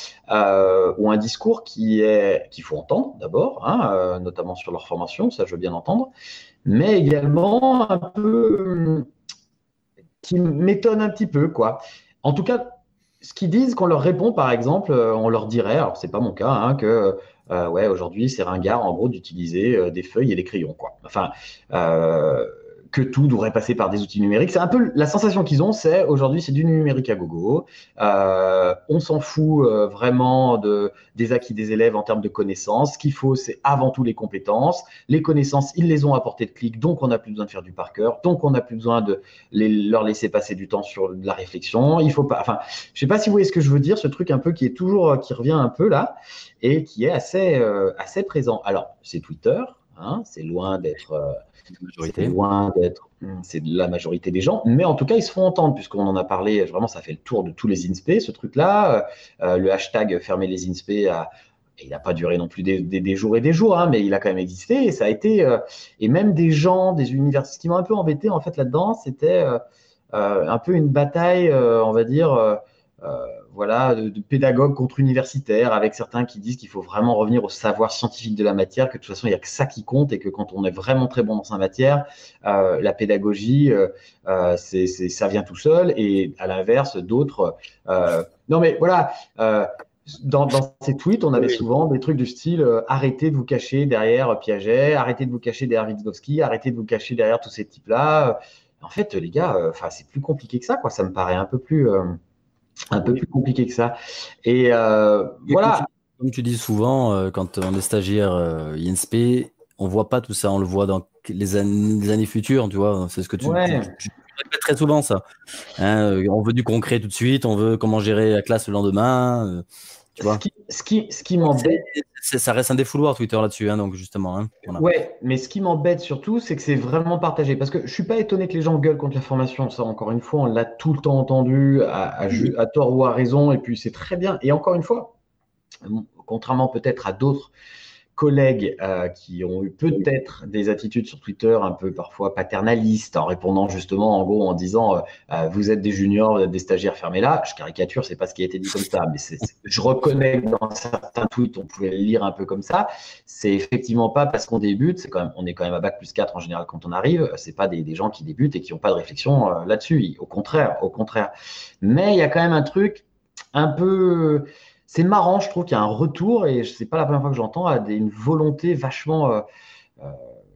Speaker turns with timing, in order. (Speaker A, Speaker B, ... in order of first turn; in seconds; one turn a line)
Speaker A: 0.3-6.1
Speaker A: 6.7-9.1
Speaker A: 10.2-51.4
Speaker B: 51.9-52.3
Speaker A: 52.0-61.3
Speaker A: 61.8-69.6
Speaker A: 70.1-102.2
Speaker A: 102.9-105.8
Speaker B: 105.5-115.2
Speaker A: 113.4-113.9
Speaker B: 115.8-119.6
Speaker B: 120.2-120.4
Speaker A: 120.2-121.8
Speaker B: 121.5-124.8
Speaker A: 124.7-135.1
Speaker A: 135.8-137.5
Speaker A: 138.2-169.4
Speaker A: 170.0-170.4